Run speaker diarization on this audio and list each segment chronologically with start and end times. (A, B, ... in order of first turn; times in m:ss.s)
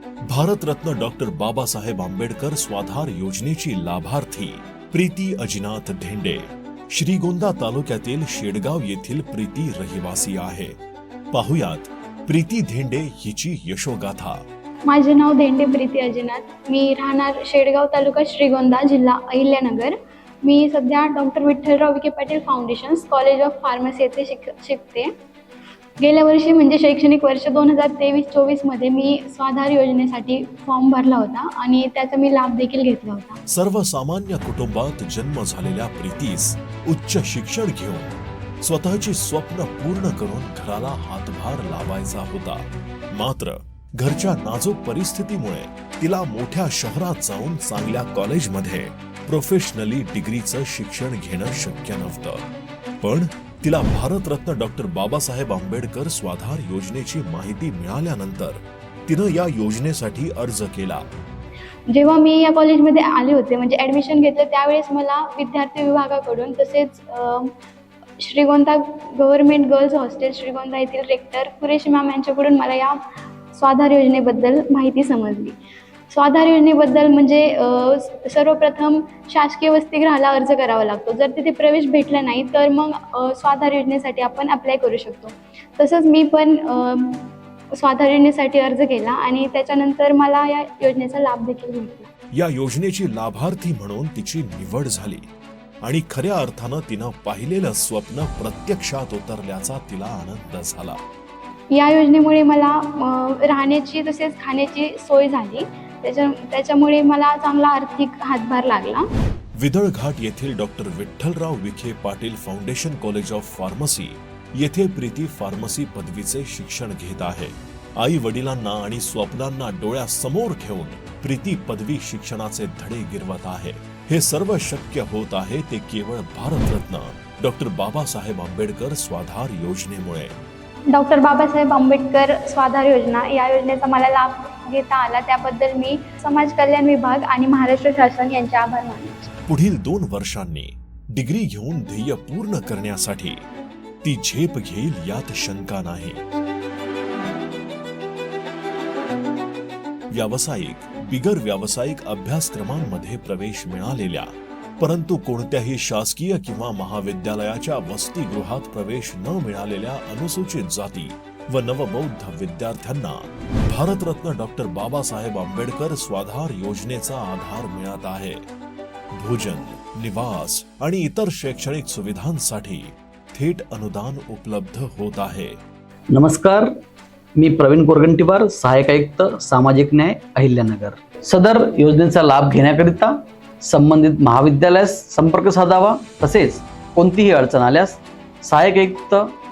0:00.3-0:10.8 A
0:11.3-0:14.4 A
0:14.9-0:25.1 B
0:26.0-0:33.4 B
0:33.5-0:52.5 A
0:53.0-1:01.1 A
1:01.9-1:07.5 B
1:08.2-1:15.6 B
1:16.1-1:32.1 B
1:32.3-1:35.3 A
1:35.8-1:41.0 A
1:41.7-1:49.1 B
1:49.6-2:10.4 A
2:10.9-2:19.3 B
2:19.5-2:23.4 A
2:24.0-2:26.2 A
2:30.1-2:48.4 A
2:49.2-2:55.6 A
2:56.1-2:56.7 C
2:57.4-3:09.3 C